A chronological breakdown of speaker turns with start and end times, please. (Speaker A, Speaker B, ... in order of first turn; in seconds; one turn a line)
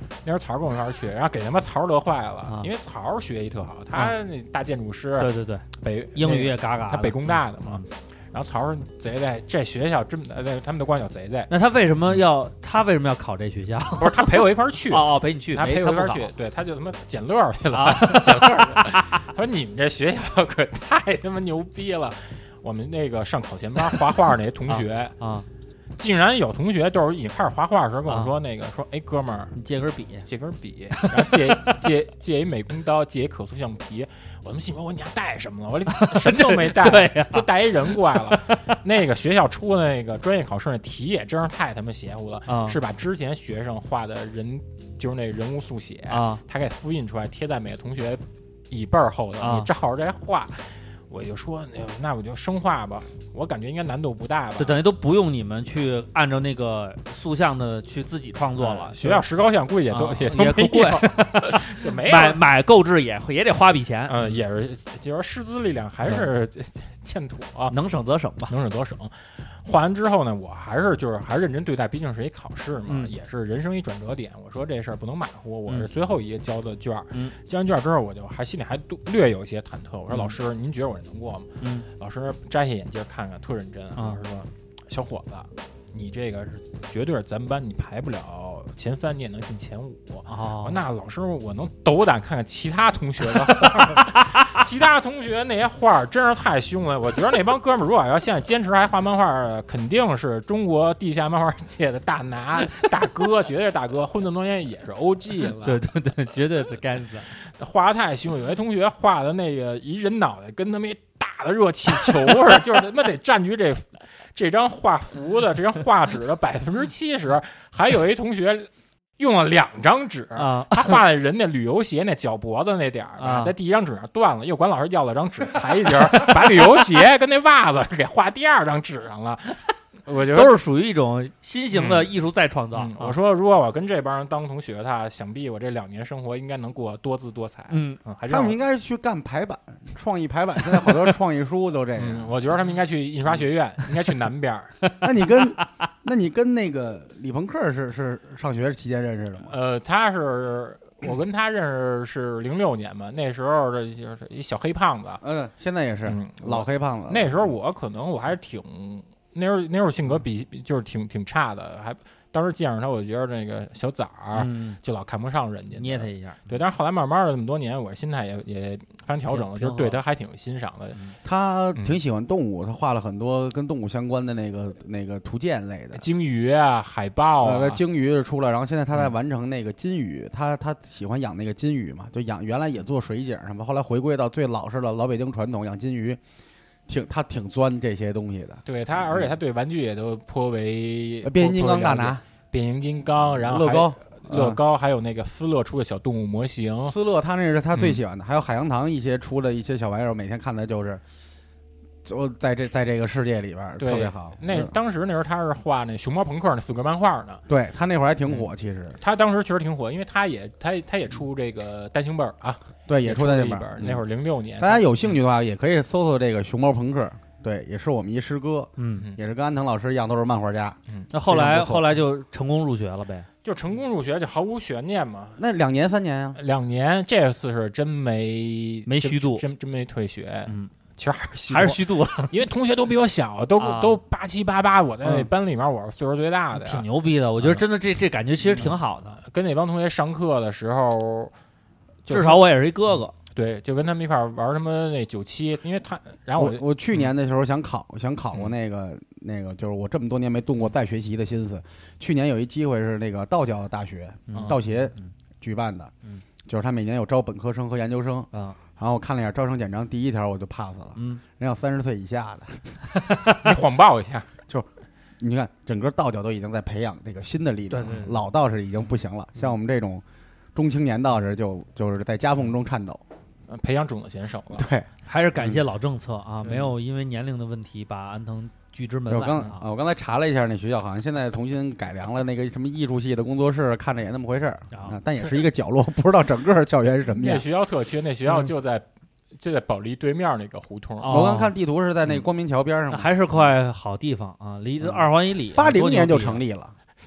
Speaker A: 0.2-11.5
Speaker B: 5.2-7.8
Speaker B: 11.5-16.3
Speaker A: 14.0-25.1
Speaker B: 17.7-19.3
Speaker B: 24.7-25.4
Speaker A: 26.0-29.5
Speaker B: 28.1-28.3
Speaker B: 29.5-30.3
Speaker A: 30.3-54.8
Speaker B: 30.9-31.8
Speaker B: 35.9-38.8
Speaker B: 42.5-42.8
Speaker B: 46.1-46.4
Speaker B: 49.4-49.7
Speaker B: 54.6-59.2
Speaker A: 58.6-62.4
Speaker B: 59.9-64.3
Speaker A: 64.1-67.7
Speaker B: 67.7-68.5
Speaker A: 68.5-105.8
Speaker B: 80.1-80.3
Speaker B: 81.6-81.8
Speaker B: 90.3-90.8
Speaker B: 93.6-94.6
Speaker B: 105.6-107.3
Speaker A: 107.5-130.6
Speaker B: 120.4-121.0
Speaker B: 123.2-123.5
Speaker B: 125.9-126.8
Speaker B: 130.3-133.2
Speaker A: 131.7-132.1
Speaker A: 132.7-138.6
Speaker B: 137.7-138.0
Speaker C: 138.3-142.3
Speaker A: 142.0-144.8
Speaker B: 144.8-145.6
Speaker C: 145.0-149.5
Speaker A: 149.4-155.2
Speaker C: 155.2-157.5
Speaker A: 156.0-171.0
Speaker B: 164.3-164.8
Speaker B: 165.7-166.5
Speaker B: 169.3-170.0
Speaker C: 171.2-176.0
Speaker A: 175.9-177.8
Speaker C: 177.4-186.2
Speaker C: 186.9-189.3
Speaker A: 188.7-197.0
Speaker C: 191.2-192.2
Speaker C: 193.3-194.6
Speaker C: 196.9-201.0
Speaker A: 197.7-198.0
Speaker C: 202.0-204.7
Speaker A: 203.8-207.4
Speaker C: 207.5-209.0
Speaker A: 209.0-214.9
Speaker C: 212.9-214.0
Speaker C: 214.6-220.8
Speaker B: 218.8-219.1
Speaker A: 220.9-222.0
Speaker B: 221.1-223.3
Speaker A: 223.4-225.4
Speaker C: 225.4-226.4
Speaker A: 226.4-236.9
Speaker B: 228.8-229.4
Speaker B: 230.5-230.7
Speaker B: 231.5-232.3
Speaker B: 233.6-234.0
Speaker B: 236.5-239.2
Speaker A: 237.4-237.7
Speaker A: 238.4-241.3
Speaker A: 242.1-242.5
Speaker B: 242.1-243.1
Speaker A: 243.3-247.1
Speaker C: 246.3-255.9
Speaker B: 254.3-255.1
Speaker A: 254.3-254.6
Speaker C: 256.4-262.8
Speaker B: 260.9-261.2
Speaker B: 263.0-263.4
Speaker A: 263.3-264.3
Speaker C: 265.2-270.0
Speaker B: 267.7-268.2
Speaker C: 270.5-273.0
Speaker A: 273.5-274.7
Speaker C: 274.5-274.9
Speaker B: 275.1-279.6
Speaker C: 279.1-287.4
Speaker B: 284.7-285.0
Speaker A: 287.1-291.3
Speaker B: 291.0-291.5
Speaker C: 291.1-293.1
Speaker B: 292.9-296.4
Speaker C: 295.5-296.7